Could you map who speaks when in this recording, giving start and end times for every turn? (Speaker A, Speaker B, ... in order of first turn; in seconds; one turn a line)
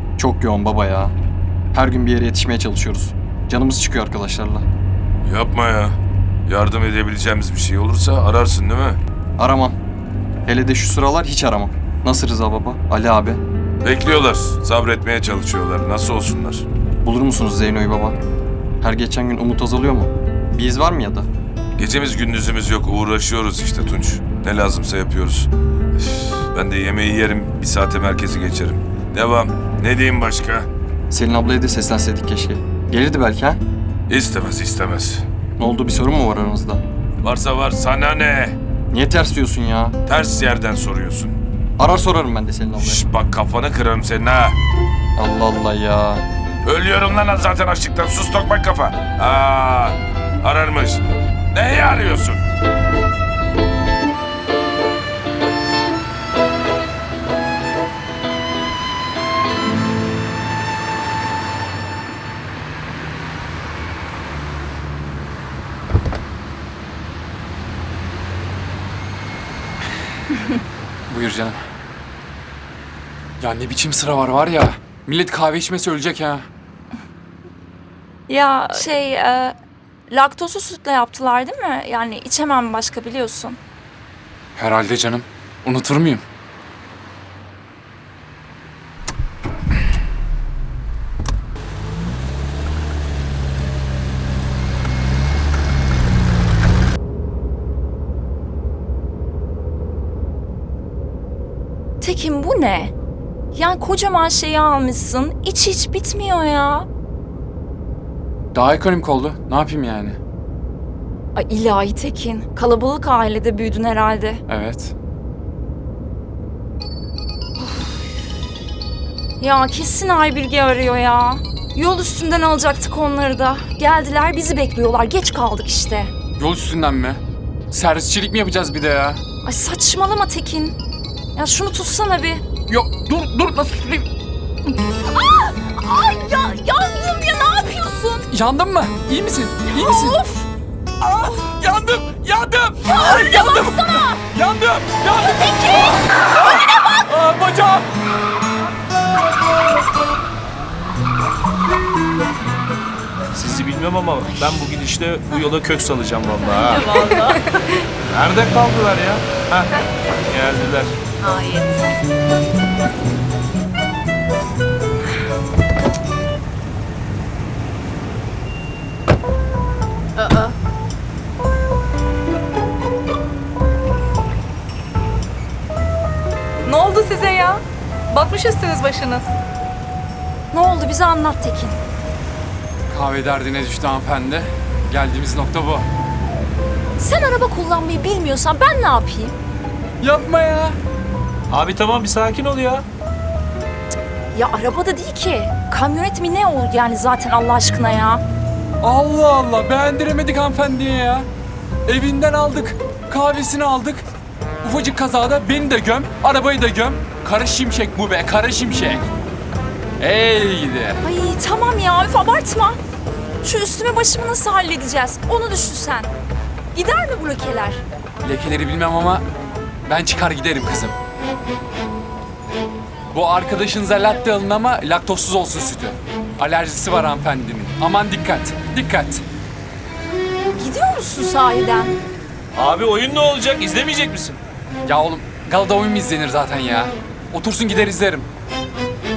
Speaker A: 0.2-1.1
Speaker A: 1.7-4.7
Speaker B: 5.2-5.9
Speaker B: 6.5-9.0
Speaker A: 9.4-9.8
Speaker A: 10.4-13.4
Speaker B: 13.8-16.6
Speaker A: 17.0-18.2
Speaker A: 18.8-21.3
Speaker B: 21.8-30.7
Speaker A: 31.1-33.6
Speaker B: 34.1-35.2
Speaker A: 35.6-36.8
Speaker B: 37.2-38.6
Speaker A: 38.9-40.0
Speaker B: 40.0-41.4
Speaker A: 41.8-43.0
Speaker B: 42.8-44.5
Speaker A: 45.2-46.2
Speaker B: 46.6-51.0
Speaker B: 51.5-52.4
Speaker C: 71.1-71.6
Speaker C: 73.4-76.4
Speaker D: 78.3-79.5
Speaker D: 80.1-83.6
Speaker C: 84.5-86.2
Speaker D: 102.0-102.9
Speaker D: 103.5-106.9
Speaker C: 108.5-110.2
Speaker D: 111.3-114.4
Speaker C: 114.5-114.9
Speaker D: 117.6-118.0
Speaker D: 119.4-126.1
Speaker C: 126.4-127.2
Speaker C: 127.7-129.2
Speaker D: 129.4-130.8
Speaker D: 131.3-132.4
Speaker C: 132.7-134.1
Speaker D: 134.9-138.3
Speaker C: 138.3-140.2
Speaker D: 139.7-140.5
Speaker C: 141.0-145.9
Speaker D: 142.8-144.2
Speaker D: 145.2-147.0
Speaker C: 147.0-147.8
Speaker E: 153.3-156.9
Speaker F: 156.7-157.4
Speaker E: 158.1-159.7
Speaker E: 160.3-160.9
Speaker F: 161.2-161.8
Speaker F: 170.2-170.5
Speaker F: 176.6-179.3
Speaker D: 180.5-181.8
Speaker C: 182.9-185.8
Speaker D: 187.0-189.3
Speaker C: 190.0-190.8
Speaker E: 191.5-192.8
Speaker D: 194.3-198.2
Speaker C: 198.8-201.3
Speaker C: 201.8-204.1
Speaker C: 204.6-209.1
Speaker C: 210.0-211.0
Speaker D: 211.0-212.8
Speaker D: 213.4-216.1
Speaker D: 216.7-217.8
Speaker C: 218.2-219.2
Speaker C: 219.9-220.9
Speaker C: 223.1-229.2
Speaker D: 230.6-232.0
Speaker E: 232.5-234.4
Speaker C: 234.8-238.3